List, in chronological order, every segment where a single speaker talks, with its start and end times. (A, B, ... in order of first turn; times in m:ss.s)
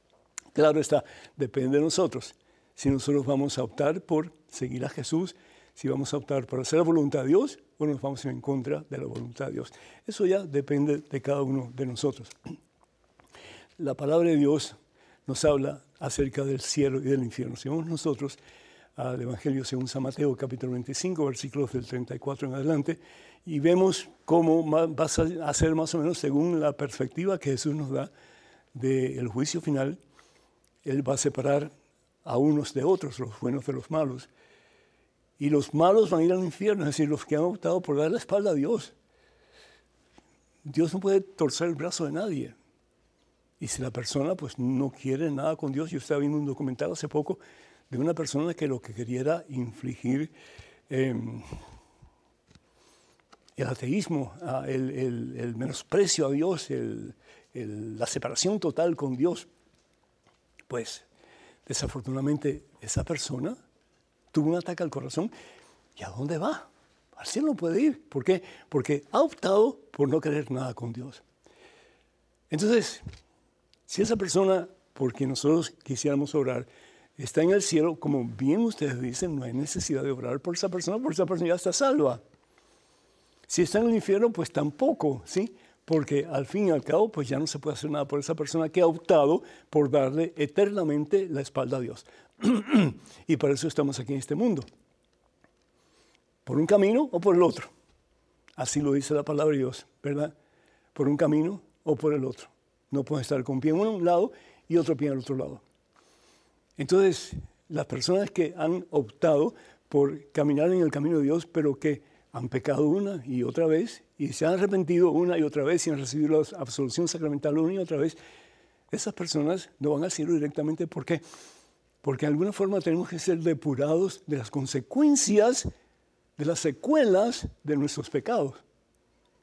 0:00.5-0:12.4 A
0:13.8-0:18.4 A
0:19.0-0:28.1 A
0:28.8-0:30.0 A
0:30.8-0:31.7 A
0:32.2-0:34.3 A
0:35.4-0:39.0 A
0:40.6-0:42.6 A
0:43.6-0:50.3 A
0:50.9-0:51.6 A
0:53.6-0:59.5 A
1:00.7-1:01.1 A
1:01.7-1:03.6 A
1:04.3-1:05.3 A
1:06.0-1:11.2 A
1:12.5-1:13.0 A
1:13.9-1:22.2 A
1:23.5-1:34.7 A
1:36.4-1:37.7 A
1:38.6-1:40.3 A
1:40.9-1:45.6 A
1:46.8-1:58.2 A
1:58.9-2:01.2 A
2:02.0-2:05.7 A
2:06.4-2:08.6 A